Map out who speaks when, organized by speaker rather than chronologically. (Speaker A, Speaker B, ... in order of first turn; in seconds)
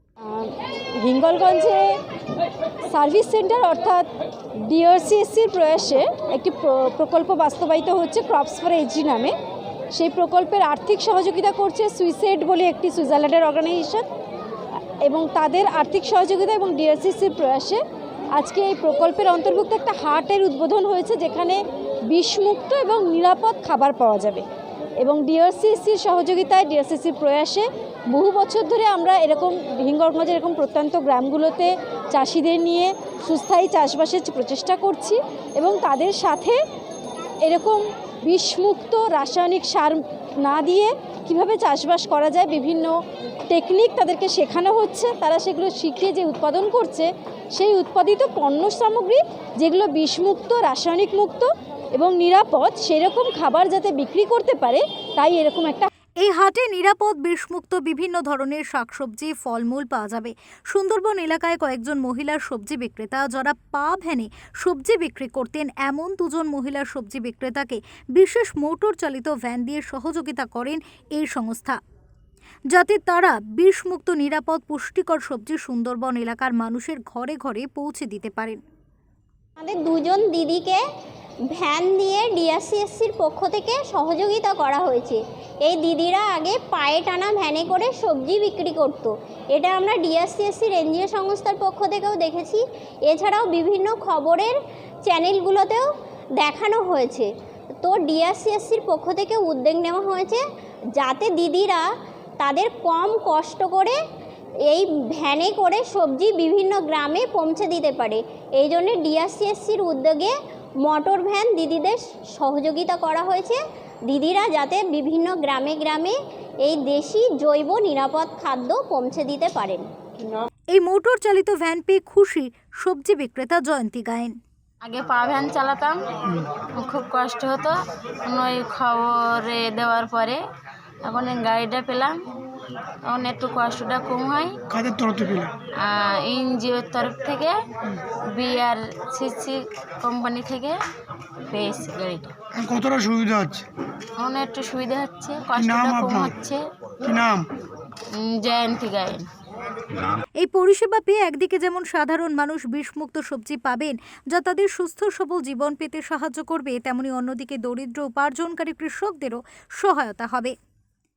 Speaker A: 0.3-1.9, 2.9-4.0, 4.7-9.3, 9.9-14.0, 15.1-17.8, 18.4-24.4, 25.0-36.6, 37.4-42.9, 43.5-55.9
Speaker B: 56.2-71.8, 72.7-78.6, 120.7-124.4, 150.4-160.5
Speaker C: 79.6-80.8, 81.6-94.5, 95.1-95.9, 96.4-97.3, 97.8-100.4, 101.0-101.9, 102.4-104.0, 104.7-119.8
Speaker D: 124.8-126.0, 126.8-130.4, 131.1-132.2, 133.1-134.6, 135.8-137.6, 138.3-140.8, 141.5-142.3, 144.2-146.6, 148.2-149.2
Speaker E: 134.7-135.5, 142.5-143.7, 145.6-146.3, 147.0-147.5